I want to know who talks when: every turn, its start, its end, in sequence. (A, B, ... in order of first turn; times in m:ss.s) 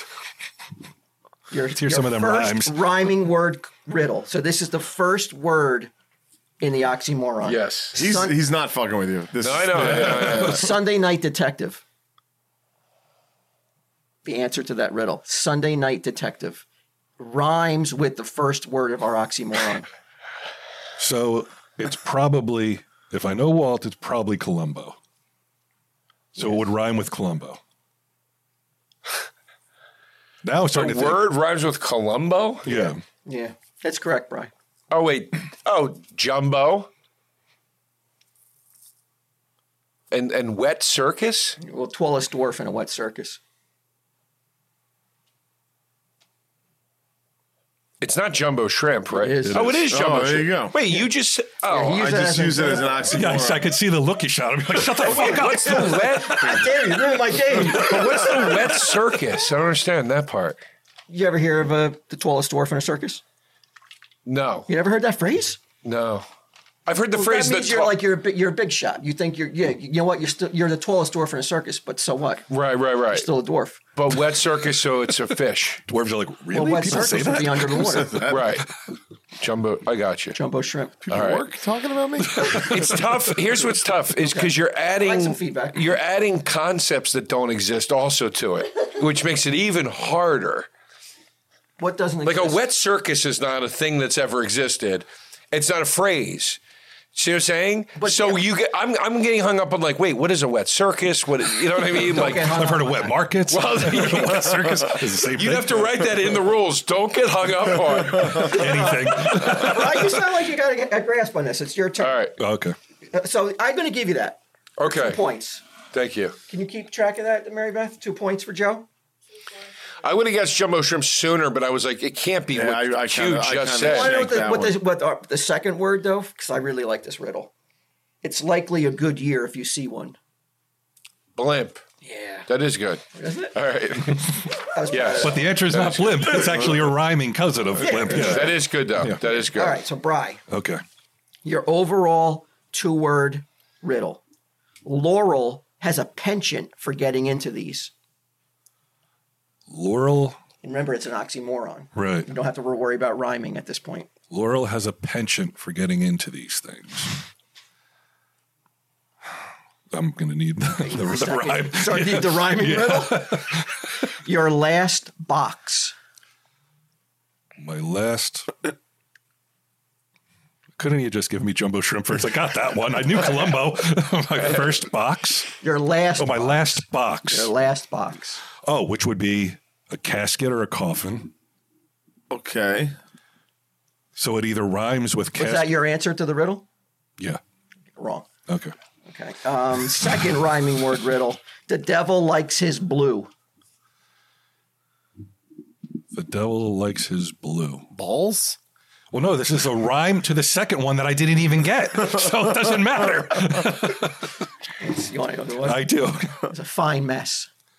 0:01.5-0:05.9 A
0:01.7-0:02.8 B
0:06.6-0:08.4 A
0:07.4-0:08.0 C
0:08.0-0:10.6 D
0:09.4-0:10.7 C
0:10.2-0:11.8 A
0:14.2-0:16.6 A
0:17.2-0:19.9 A
0:21.0-0:25.0 B
0:26.4-0:27.6 B
0:30.4-0:31.2 B
0:30.7-0:32.7 C
0:32.7-0:33.0 B
0:32.7-0:34.5 A
0:34.9-0:36.9 C
0:40.1-0:41.6 C
0:41.6-0:43.4 A
0:48.0-0:52.1 C
0:49.2-0:49.8 A
0:49.9-0:50.8 D
0:51.6-0:53.1 A
0:51.9-0:53.6 D
0:53.1-0:56.6 B
0:54.9-0:56.7 C
0:55.1-0:58.9 A
0:57.5-1:00.6 C
1:01.1-1:03.2 A
1:04.3-1:04.7 C
1:04.7-1:05.6 A
1:05.8-1:06.3 C
1:06.9-1:08.0 C
1:07.1-1:12.5 A
1:12.5-1:13.3 C
1:13.1-1:13.8 A
1:14.0-1:15.8 C
1:15.9-1:18.2 B
1:16.5-1:18.3 A
1:17.9-1:18.6 D
1:18.3-1:18.7 C
1:19.4-1:20.4 C
1:20.4-1:21.0 A
1:21.0-1:22.9 D
1:21.1-1:21.5 C
1:22.4-1:30.7 C
1:24.2-1:26.0 A
1:31.8-1:32.6 A
1:32.2-1:36.6 C
1:37.2-1:42.6 C
1:38.0-1:38.4 A
1:42.0-1:43.2 A
1:42.2-1:45.9 B
1:43.5-1:49.8 C
1:48.2-1:50.1 B
1:48.4-1:52.3 A
1:52.0-1:52.4 C
1:52.4-1:52.8 B
1:53.1-1:55.6 A
1:54.8-1:55.2 C
1:55.9-1:56.4 C
1:56.5-1:58.9 A
2:00.0-2:04.2 C
2:02.5-2:04.8 D
2:03.9-2:07.5 A
2:08.2-2:10.2 A
2:11.4-2:11.8 C
2:12.0-2:12.5 A
2:12.5-2:16.7 C
2:13.1-2:13.6 A
2:14.6-2:15.5 A
2:15.2-2:19.2 B
2:17.8-2:18.6 A
2:18.1-2:19.8 C
2:19.2-2:20.4 A
2:20.5-2:20.8 B
2:21.4-2:24.2 A
2:24.8-2:27.9 A
2:29.7-2:30.4 B
2:30.6-2:34.1 A
2:32.0-2:32.3 B
2:34.3-2:37.2 B
2:39.9-2:43.7 B
2:40.8-2:43.6 A
2:44.2-2:45.9 A
2:47.6-2:48.7 B
2:50.8-2:55.5 B
2:55.6-2:56.7 A
2:56.2-2:57.5 B
2:57.3-2:58.4 A
2:58.6-3:01.3 B
3:02.3-3:02.9 D
3:04.2-3:05.8 B
3:05.4-3:06.6 A
3:08.0-3:08.3 A
3:08.5-3:08.8 B
3:09.1-3:13.3 A
3:16.1-3:17.9 B
3:17.9-3:18.6 D
3:19.1-3:24.3 B
3:24.8-3:25.9 A
3:25.6-3:26.5 B
3:26.4-3:27.5 A